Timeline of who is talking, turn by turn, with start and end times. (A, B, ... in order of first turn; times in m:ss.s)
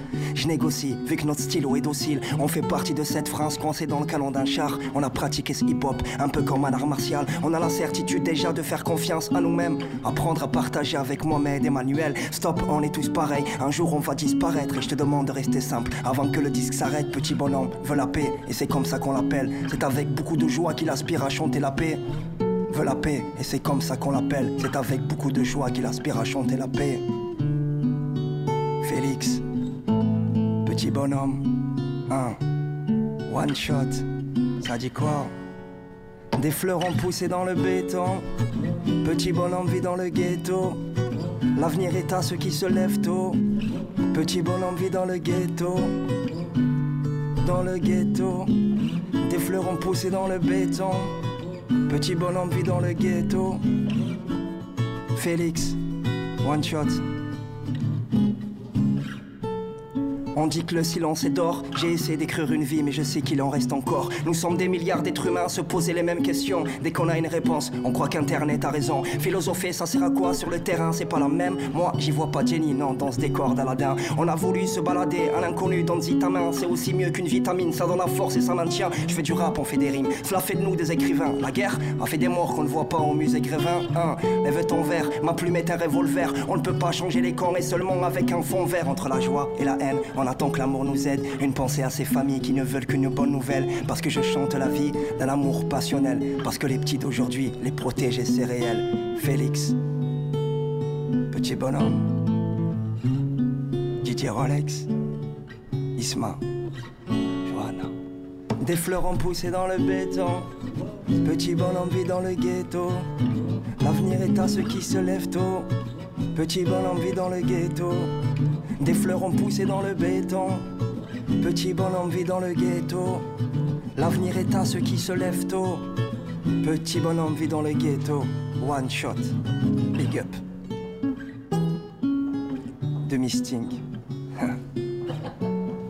0:00.3-0:22.0 A
0:22.7-0:27.0 A
0:28.8-0:29.4 A
0:30.6-0:32.4 A
0:33.3-0:34.1 A
0:34.6-0:35.3 A
0:36.4-0:38.2 A
0:39.0-0:40.8 A
0:41.5-0:43.5 A
0:44.1-0:46.0 A
0:47.4-0:48.6 A
0:49.2-0:51.2 A
0:51.8-0:53.6 A
0:55.1-0:55.8 A
0:56.4-0:57.1 A
1:00.3-1:39.8 A
1:41.3-1:42.2 A
1:44.0-1:44.9 A
1:46.0-1:46.4 A
1:47.4-1:47.9 A
1:48.6-1:50.5 A
1:51.2-1:53.1 A
1:53.8-1:55.7 A
1:56.3-1:58.2 A
1:58.8-2:00.6 A
2:01.4-2:03.3 A
2:04.0-2:05.9 A
2:06.6-2:09.4 A
2:09.9-2:10.4 A
2:13.0-2:13.8 A